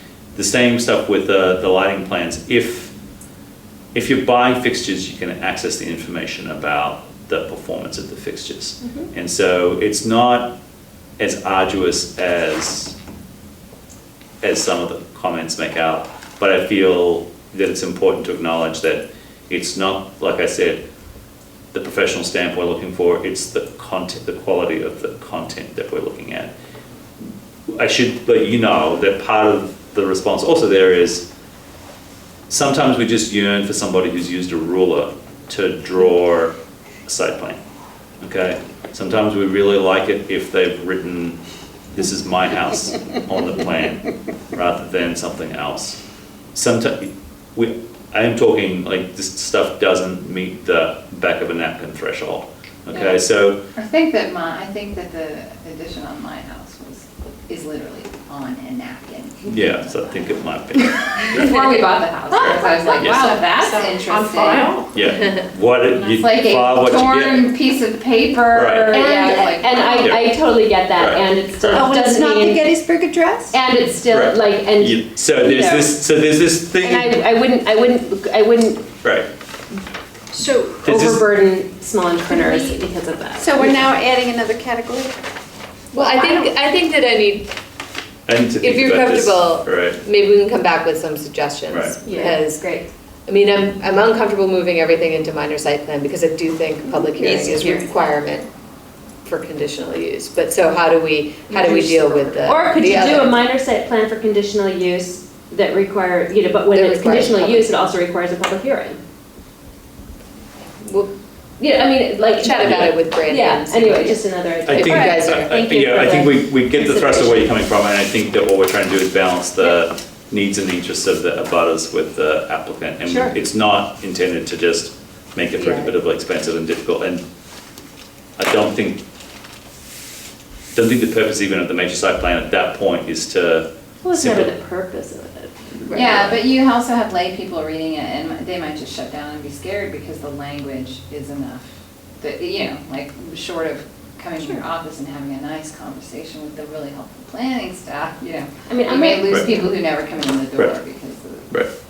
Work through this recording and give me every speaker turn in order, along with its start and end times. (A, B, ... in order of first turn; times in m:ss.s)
0:00.3-0:02.9 A
0:03.9-0:10.5 A
0:11.2-0:12.9 A
0:14.4-0:20.8 A
0:21.7-0:26.5 A
0:27.7-0:31.3 A
0:32.5-0:36.5 A
0:37.0-0:37.6 A
0:38.2-0:41.4 A
0:41.9-0:46.0 A
0:46.5-0:53.6 A
0:52.9-0:53.2 B
0:53.8-1:00.4 B
0:59.5-1:01.5 A
1:01.0-1:04.8 B
1:02.3-1:04.9 C
1:02.9-1:03.8 D
1:03.0-1:03.3 A
1:04.9-1:07.5 A
1:05.9-1:10.2 B
1:08.5-1:09.1 A
1:08.9-1:12.8 D
1:09.0-1:09.4 E
1:10.0-1:10.4 A
1:10.9-1:11.9 A
1:11.7-1:13.6 C
1:13.5-1:16.0 D
1:14.1-1:17.2 A
1:16.8-1:18.9 D
1:19.0-1:19.3 A
1:20.3-1:20.7 C
1:20.6-1:23.8 D
1:20.8-1:21.2 A
1:22.3-1:22.8 C
1:23.4-1:25.2 C
1:25.9-1:27.5 E
1:28.3-1:30.0 A
1:28.6-1:38.5 E
1:31.7-1:32.0 A
1:32.0-1:32.9 D
1:37.2-1:37.8 D
1:37.2-1:37.9 C
1:39.2-1:43.4 E
1:41.5-1:49.0 D
1:46.7-1:47.8 E
1:50.6-1:51.1 E
1:51.6-1:57.6 D
1:52.3-1:55.6 E
1:54.7-2:07.2 A
2:03.0-2:03.4 D
2:05.6-2:05.9 E
2:08.4-2:09.0 A
2:10.7-2:14.5 A
2:14.0-2:16.1 D
2:15.9-2:31.6 B
2:15.9-2:16.3 E
2:15.9-2:16.3 A
2:28.7-2:29.8 D